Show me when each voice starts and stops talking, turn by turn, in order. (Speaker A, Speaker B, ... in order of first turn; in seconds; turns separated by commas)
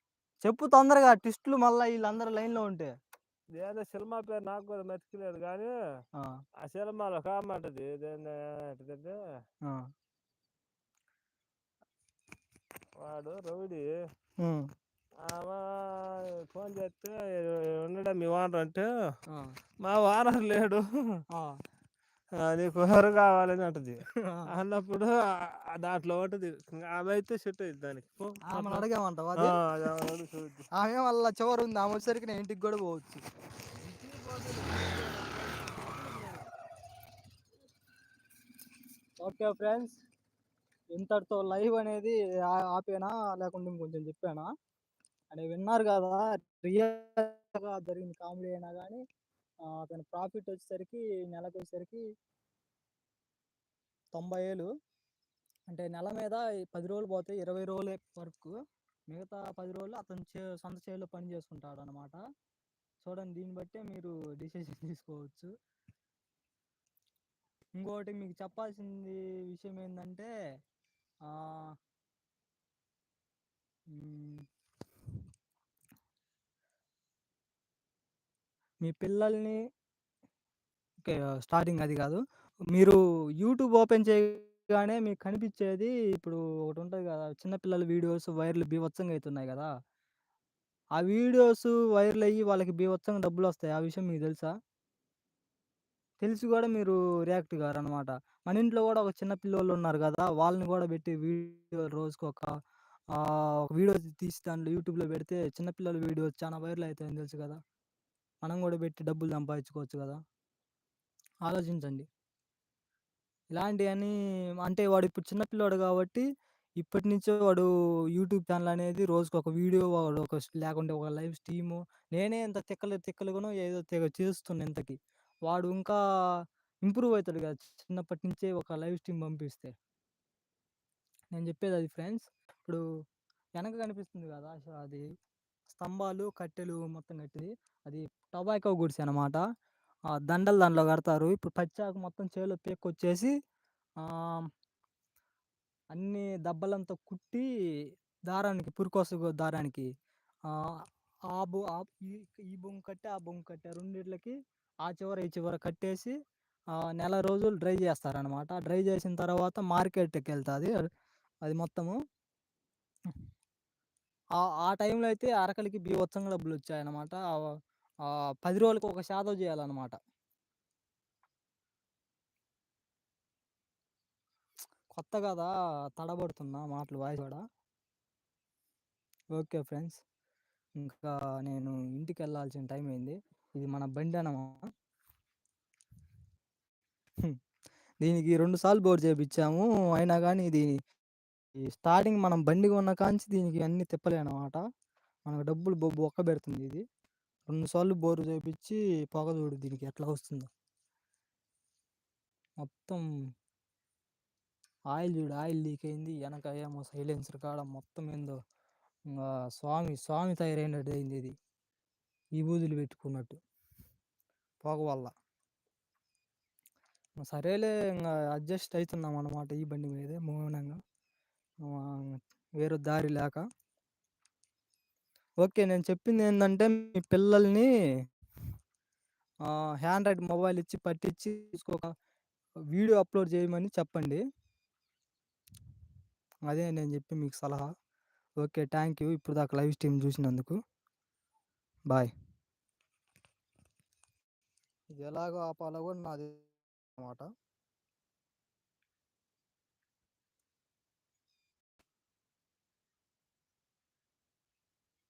Speaker A: 0.4-2.9, Speaker B: 3.5-5.7, Speaker B: 6.6-9.2, Speaker B: 13.0-13.9, Speaker A: 14.4-14.7, Speaker B: 15.2-18.9, Speaker A: 19.3-19.6, Speaker B: 19.8-21.2, Speaker B: 22.4-24.0, Speaker A: 24.2-24.5, Speaker B: 24.5-28.9, Speaker A: 28.4-29.6, Speaker B: 29.4-30.7, Speaker A: 30.8-33.2, Speaker B: 33.8-36.5, Speaker A: 39.2-40.0, Speaker A: 41.0-44.5, Speaker A: 45.3-49.0, Speaker A: 49.7-52.0, Speaker A: 54.1-54.7, Speaker A: 55.7-58.5, Speaker A: 59.1-62.2, Speaker A: 63.0-65.5, Speaker A: 67.8-70.3, Speaker A: 71.3-71.8, Speaker A: 73.9-74.5, Speaker A: 78.8-79.6, Speaker A: 81.0-82.2, Speaker A: 82.8-89.7, Speaker A: 91.0-94.5, Speaker A: 96.2-102.5, Speaker A: 103.2-107.6, Speaker A: 108.4-110.2, Speaker A: 111.5-112.1, Speaker A: 113.5-116.3, Speaker A: 116.8-125.0, Speaker A: 125.5-126.0, Speaker A: 126.9-129.8, Speaker A: 131.3-132.8, Speaker A: 133.6-135.1, Speaker A: 135.7-139.4, Speaker A: 140.1-143.3, Speaker A: 144.0-144.5, Speaker A: 145.9-147.5, Speaker A: 148.3-149.9, Speaker A: 150.5-150.8, Speaker A: 151.3-156.2, Speaker A: 156.8-160.8, Speaker A: 161.4-162.0, Speaker A: 164.4-167.5, Speaker A: 168.1-170.0, Speaker A: 174.9-177.4, Speaker A: 179.4-180.0, Speaker A: 180.8-184.6, Speaker A: 188.0-190.8, Speaker A: 191.7-194.6, Speaker A: 195.3-196.8, Speaker A: 197.5-200.5, Speaker A: 202.6-203.0, Speaker A: 204.9-208.4, Speaker A: 209.1-211.4, Speaker A: 212.4-213.4, Speaker A: 214.6-215.1, Speaker A: 217.2-220.8, Speaker A: 221.6-223.4, Speaker A: 225.4-227.7, Speaker A: 229.5-231.9, Speaker A: 232.7-234.2, Speaker A: 236.5-237.7, Speaker A: 238.4-240.6, Speaker A: 245.0-247.3